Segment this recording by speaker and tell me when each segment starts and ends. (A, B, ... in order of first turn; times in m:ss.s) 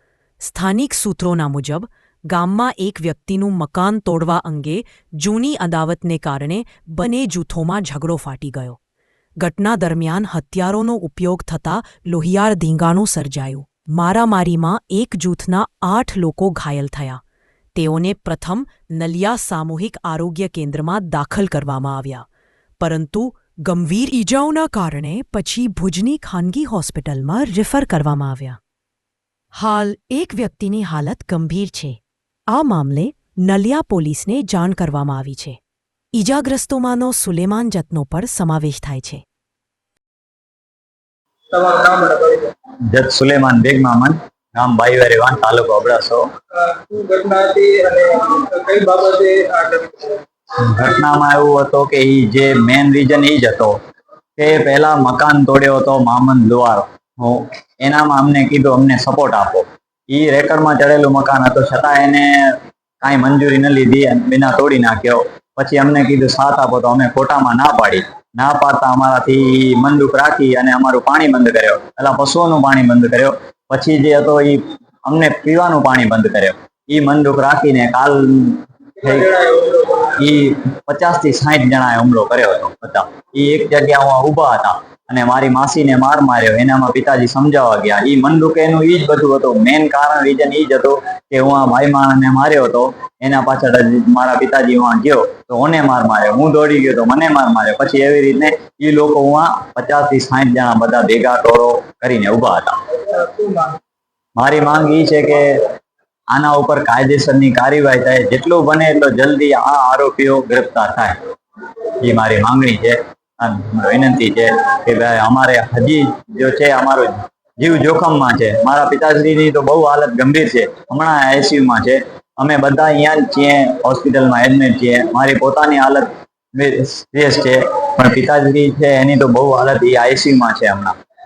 0:00.4-0:08.8 A
0:09.4-0:17.2 A
0:17.8-0:22.3 A
0:22.8-0:28.6 A
0:29.5-0:35.6 A
0:36.2-0:39.2 A
0:41.5-0:42.5 B
0:42.9-0:46.2 C
0:46.5-0:50.2 B
0:50.6-0:53.8 C
0:54.4-1:19.3 C
1:19.1-1:20.1 B
1:20.2-1:42.7 C
1:43.1-1:43.8 B
1:44.4-1:45.4 C
1:46.3-1:51.2 C
1:52.0-2:10.9 C